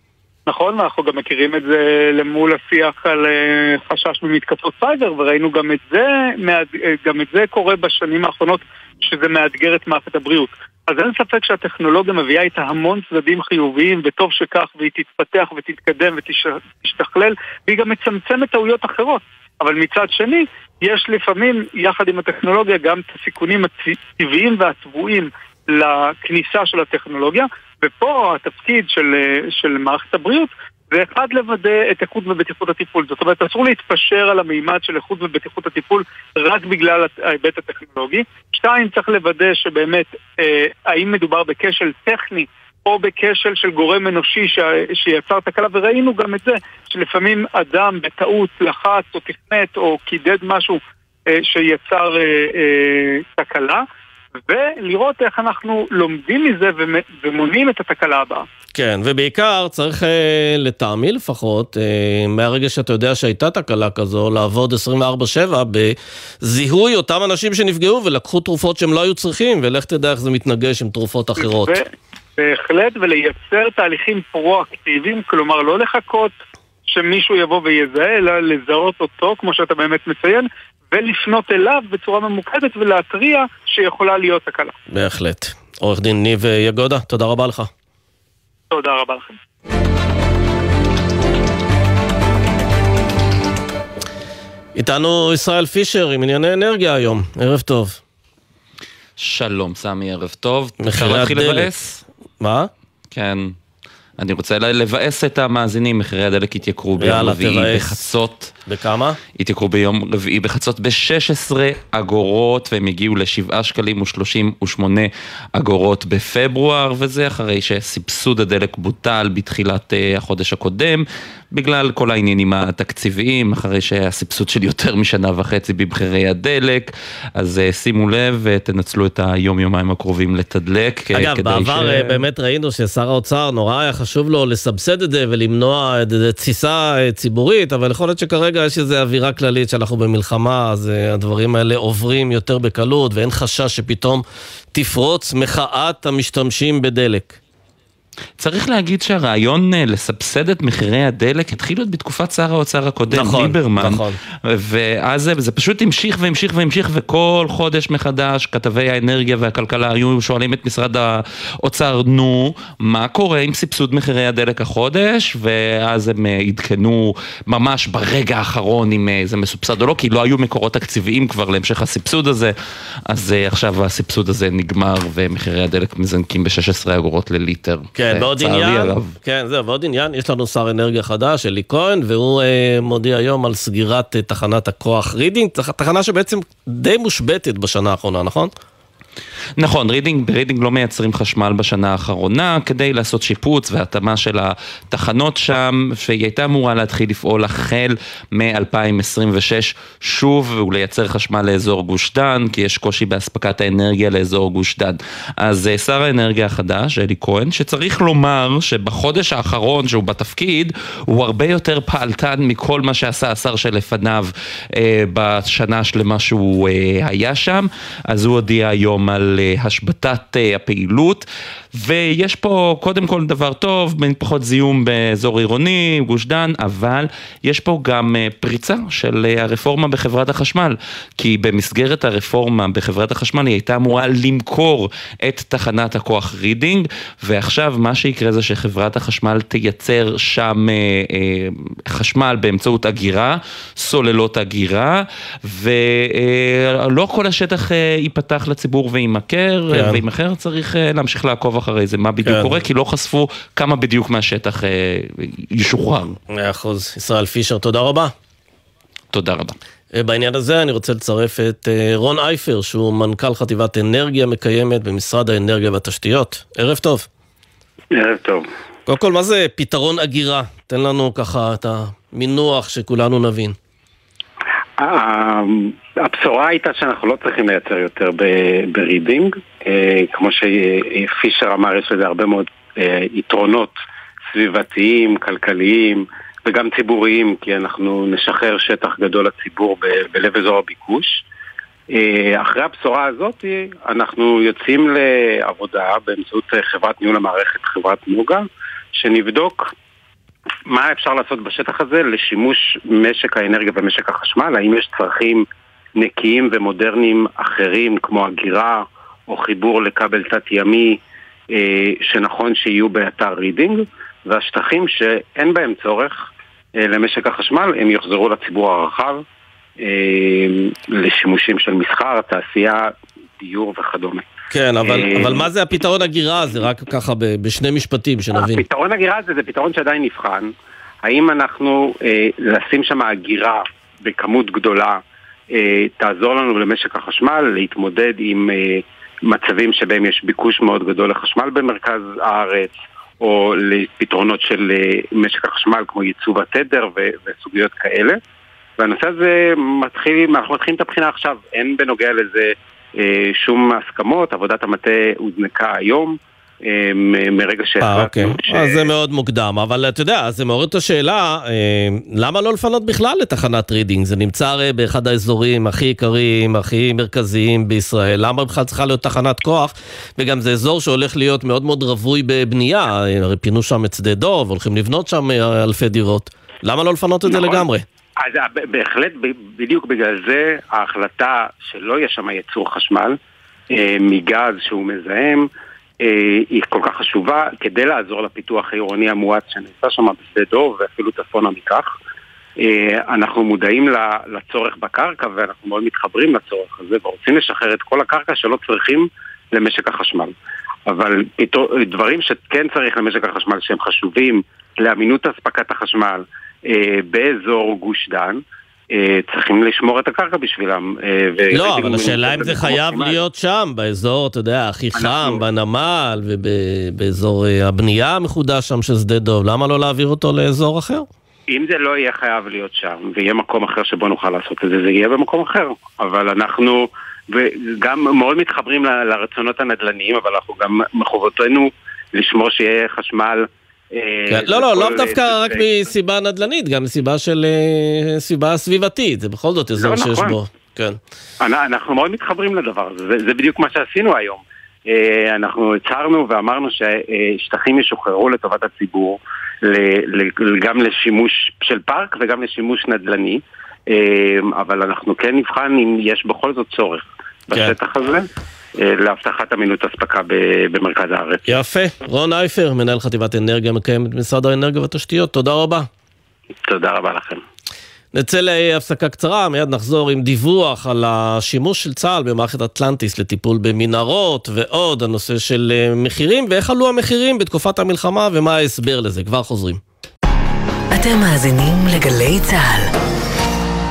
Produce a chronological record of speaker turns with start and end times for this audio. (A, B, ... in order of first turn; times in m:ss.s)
0:00.5-0:53.8 A
0:54.4-0:58.5 A
0:58.8-1:11.8 B
1:11.4-1:11.8 A
1:12.4-1:16.4 A
1:16.9-1:24.7 A
1:24.9-1:27.7 B
1:28.7-1:29.4 A
1:34.8-1:38.0 B
1:39.2-1:41.9 C
1:40.8-1:42.7 B
1:43.1-1:43.6 C
1:44.2-1:48.6 C
1:47.0-1:48.0 B
1:48.6-1:49.2 B
1:49.3-2:12.2 C
2:11.1-2:24.2 B
2:24.8-2:27.4 B
2:28.4-2:52.5 C
2:33.1-2:34.2 B
2:53.1-2:59.1 C
2:58.0-3:08.5 B
3:09.6-4:16.2 C
4:09.7-4:10.0 B
4:12.2-4:12.6 B
4:16.3-4:18.1 B
4:19.1-4:19.6 C
4:19.9-4:27.1 B
4:27.9-4:28.4 D
4:28.9-4:33.6 B
4:34.8-4:43.8 D
4:44.3-4:51.2 D
4:51.9-4:59.7 D
5:00.7-5:05.4 D
5:06.0-5:11.0 D
5:11.5-5:16.3 D
5:16.8-5:19.2 D
5:19.8-5:24.3 D
5:24.5-5:28.6 B
5:24.8-5:25.5 D
5:28.4-5:30.5 D
5:31.0-5:35.0 D
5:35.5-5:48.2 D
5:48.8-5:58.8 D
5:57.8-6:17.8 B
6:17.3-6:17.6 D
6:18.2-6:23.2 D
6:23.7-6:25.5 D
6:26.0-6:31.9 D
6:32.6-6:40.3 D
6:40.9-6:48.4 D
6:48.9-6:53.2 D
6:51.5-7:01.1 B
6:55.0-6:55.4 D
7:01.5-7:15.7 D
7:14.3-7:21.0 B
7:19.8-7:20.4 D
7:21.4-7:38.2 D
7:38.8-7:41.4 D
7:41.5-7:45.9 B
7:46.7-7:47.4 D
7:48.1-7:59.8 B
8:00.9-8:02.9 E